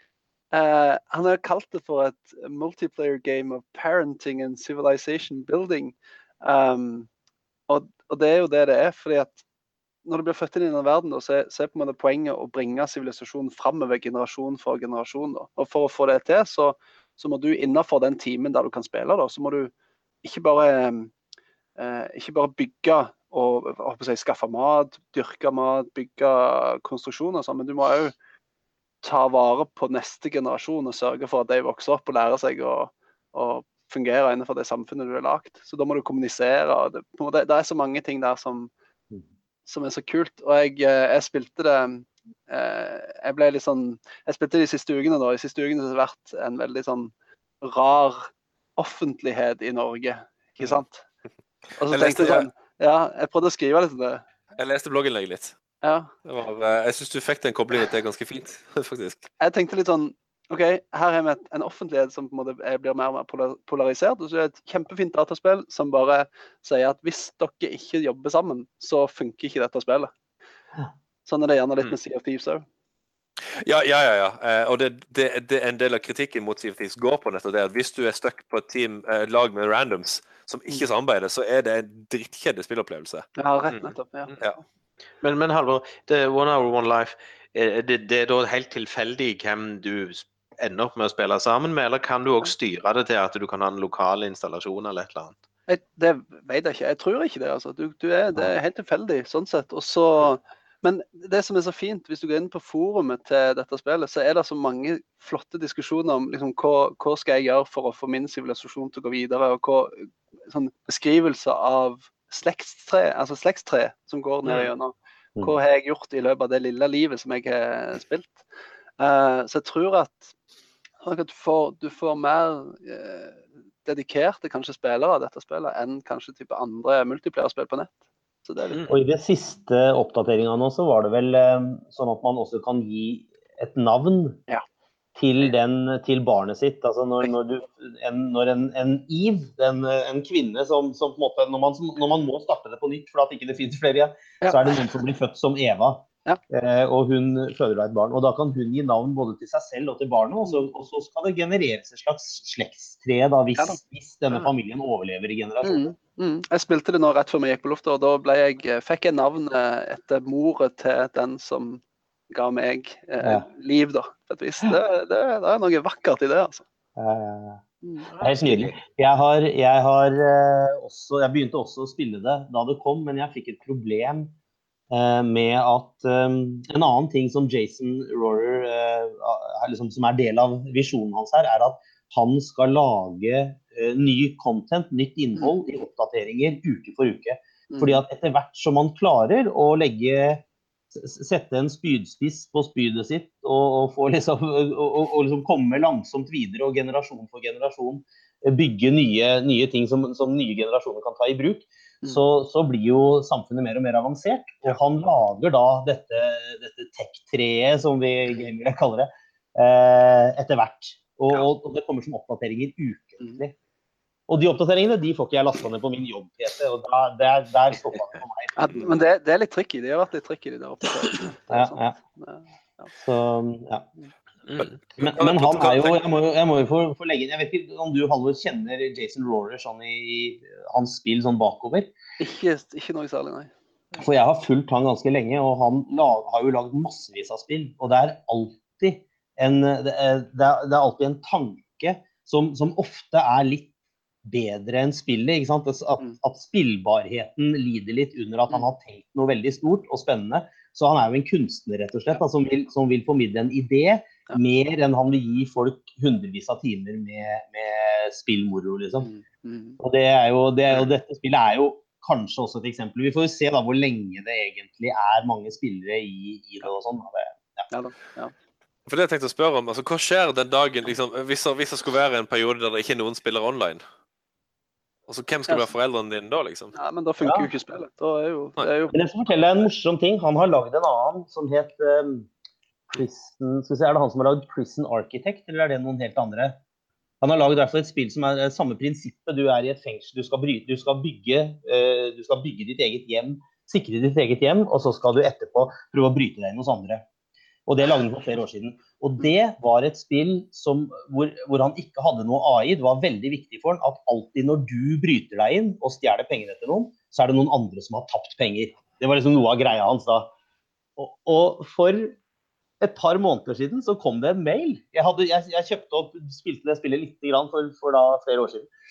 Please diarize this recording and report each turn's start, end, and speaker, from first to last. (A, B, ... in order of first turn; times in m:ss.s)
0:00.5-0:07.1 A
0:07.7-0:09.4 A
0:10.1-0:19.7 A
0:20.2-0:21.1 A
0:21.8-0:28.2 A
0:29.0-0:38.7 A
0:39.7-0:51.0 A
0:51.8-0:54.2 A
0:51.9-0:52.5 B
0:54.6-0:55.6 B
0:55.8-0:56.1 A
0:56.2-0:59.3 B
0:59.4-1:10.1 A
1:11.3-1:12.6 A
1:13.6-1:23.3 B
1:23.4-1:24.6 A
1:23.7-1:24.4 C
1:25.2-1:35.4 C
1:35.7-1:58.4 A
1:54.4-1:54.7 C
1:59.0-2:00.3 A
2:01.0-2:08.8 A
2:08.9-2:14.4 D
2:15.2-2:35.9 D
2:35.6-2:46.6 A
2:47.0-2:47.6 D
2:48.0-2:48.8 C
2:48.2-2:54.3 D
2:54.9-3:33.6 D
3:07.7-3:08.0 A
3:34.3-3:39.0 D
3:38.6-3:42.9 A
3:41.5-3:42.0 D
3:43.0-3:43.9 D
3:44.5-3:44.8 C
3:44.6-3:46.0 B
3:45.0-3:51.9 D
3:52.2-3:53.5 A
3:54.0-4:03.7 D
4:04.3-4:19.1 D
4:19.0-4:19.8 A
4:19.8-4:27.7 D
4:27.7-4:28.3 A
4:28.9-4:33.8 B
4:35.1-4:36.8 B
4:36.8-4:39.0 A
4:37.2-4:37.5 D
4:38.9-4:42.3 D
4:42.9-4:46.6 D
4:47.2-4:57.0 D
4:57.7-5:10.3 D
5:11.0-5:12.2 D
5:12.8-5:18.7 D